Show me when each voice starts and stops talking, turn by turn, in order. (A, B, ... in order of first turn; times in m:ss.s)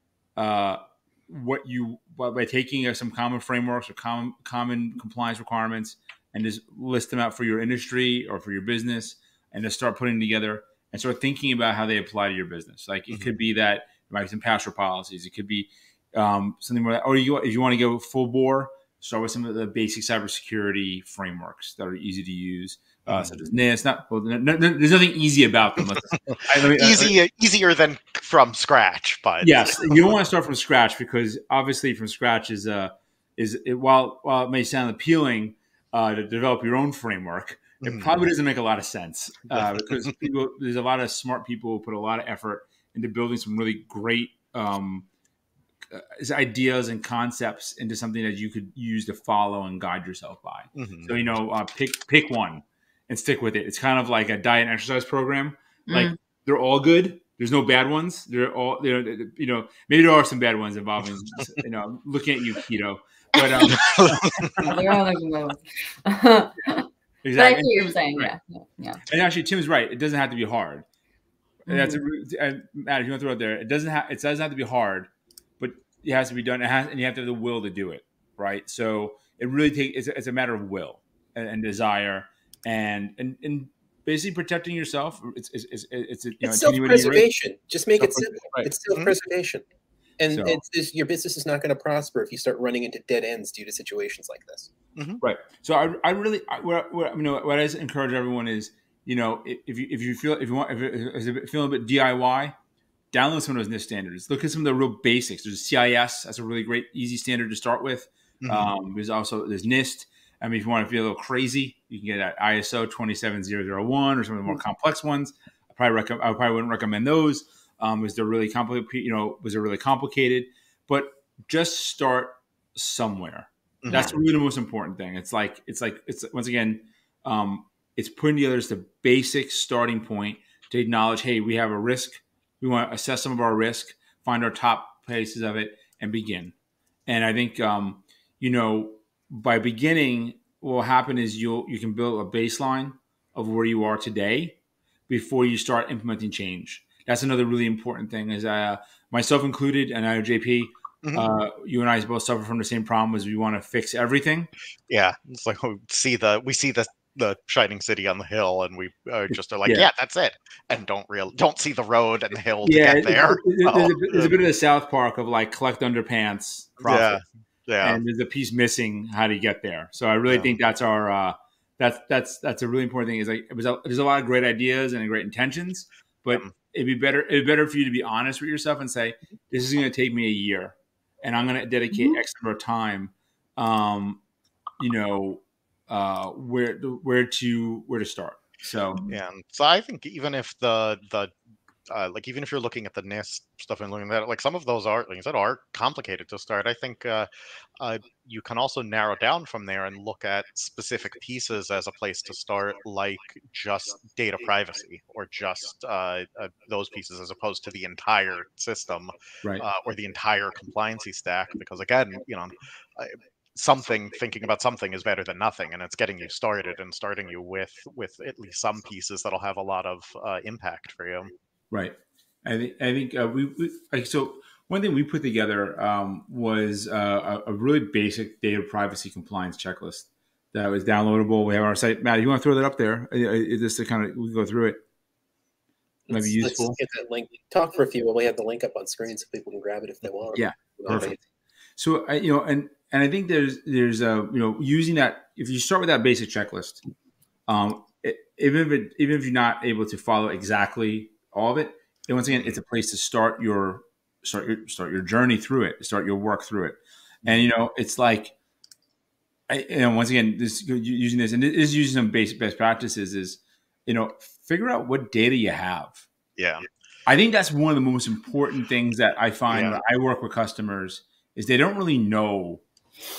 0:00.4-0:27.2 A
0:23.1-0:23.4 B
0:26.3-0:30.0 B
0:29.4-0:45.1 A
0:37.8-0:38.3 B
0:39.5-0:39.8 B
0:45.9-1:04.8 A
0:50.8-0:51.1 B
0:55.9-0:56.2 C
1:03.4-1:09.0 C
1:03.8-1:04.7 B
1:07.2-1:08.3 A
1:09.1-1:10.8 A
1:11.7-1:15.1 A
1:11.7-1:12.0 C
1:15.6-1:27.3 A
1:26.4-1:29.6 D
1:28.0-1:29.1 A
1:30.2-1:34.7 D
1:30.3-1:30.6 A
1:35.0-1:35.2 B
1:35.2-1:42.6 A
1:43.1-2:16.5 A
1:48.4-1:48.7 B
2:03.8-2:04.2 B
2:17.1-2:24.6 A
2:25.1-2:34.5 A
2:31.0-2:31.3 B
2:34.9-2:44.4 B
2:42.6-2:47.2 A
2:46.8-2:48.0 B
2:47.8-3:04.2 A
2:50.3-2:50.5 B
3:01.9-3:02.2 C
3:04.8-3:09.1 A
3:09.1-3:11.3 B
3:11.9-3:17.3 B
3:17.8-3:41.3 B
3:41.7-3:54.8 A
3:56.1-4:01.2 D
3:56.1-3:56.8 A
4:00.4-4:01.2 A
4:01.8-4:06.8 A
4:07.5-4:18.3 A
4:19.5-4:26.1 A
4:26.4-4:26.6 B
4:27.1-4:32.6 A
4:29.5-4:29.8 B